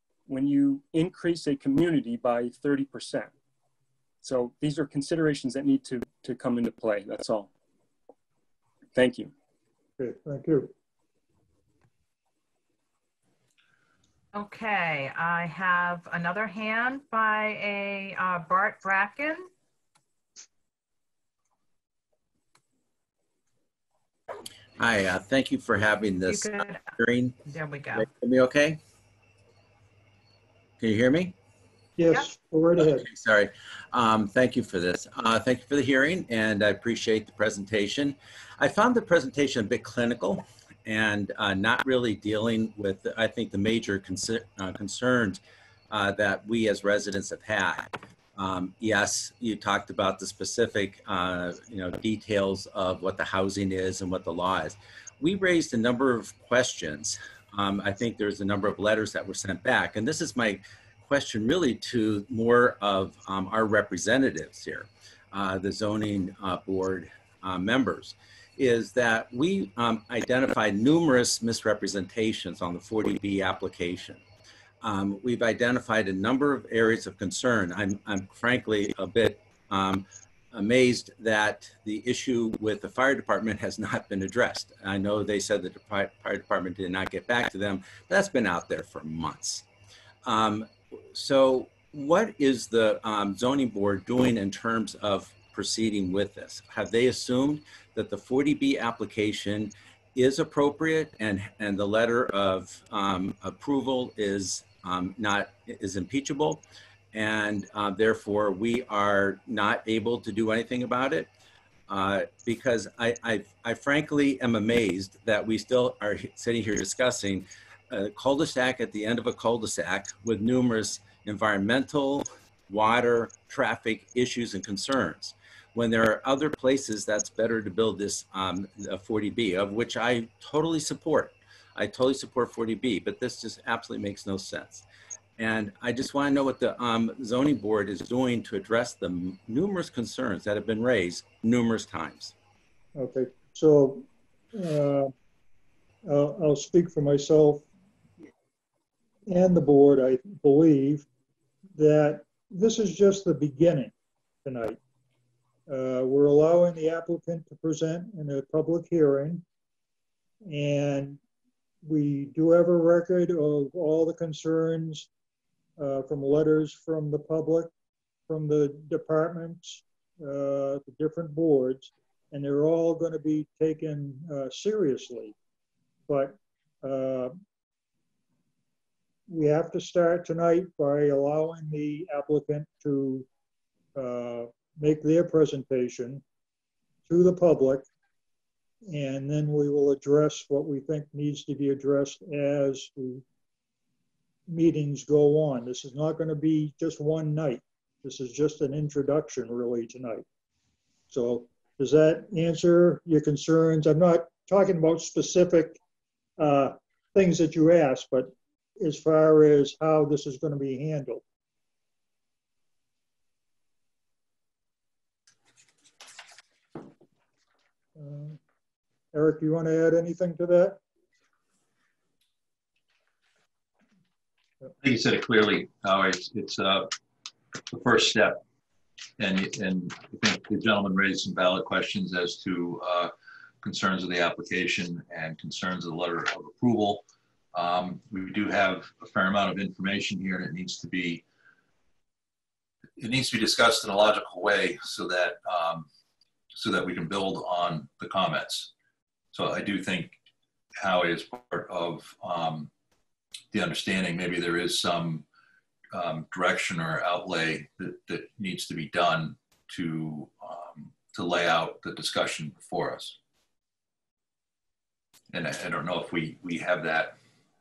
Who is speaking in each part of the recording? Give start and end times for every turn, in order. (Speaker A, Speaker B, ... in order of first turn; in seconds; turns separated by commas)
Speaker A: 0.3-3.3, Speaker A: 4.2-7.5, Speaker A: 8.9-9.3, Speaker B: 10.0-10.7, Speaker C: 14.3-19.5, Speaker D: 24.8-27.4, Speaker C: 26.3-28.1, Speaker D: 27.9-28.8, Speaker D: 30.8-31.4, Speaker B: 32.0-33.0, Speaker D: 32.8-74.2, Speaker D: 74.8-89.6, Speaker D: 90.2-111.3, Speaker D: 111.9-134.8, Speaker D: 135.4-142.3, Speaker B: 142.9-145.1, Speaker B: 146.1-147.7, Speaker B: 149.3-151.1, Speaker B: 151.7-153.9, Speaker B: 154.4-154.8, Speaker B: 155.7-159.4, Speaker B: 160.4-161.2, Speaker B: 161.8-165.1, Speaker B: 165.8-167.7, Speaker B: 168.3-175.3, Speaker B: 176.1-177.4, Speaker B: 179.3-183.3, Speaker B: 183.9-186.2, Speaker B: 187.1-187.9, Speaker B: 188.8-193.2, Speaker B: 194.5-200.2, Speaker B: 201.1-205.8, Speaker B: 206.4-211.2, Speaker B: 217.9-218.4, Speaker B: 219.1-220.8, Speaker E: 224.8-226.9, Speaker E: 227.7-228.4, Speaker E: 229.2-241.2, Speaker E: 243.0-245.9, Speaker E: 246.5-248.7, Speaker E: 249.3-250.1, Speaker E: 250.8-252.7, Speaker E: 253.5-255.2, Speaker E: 255.9-263.1, Speaker E: 265.3-267.1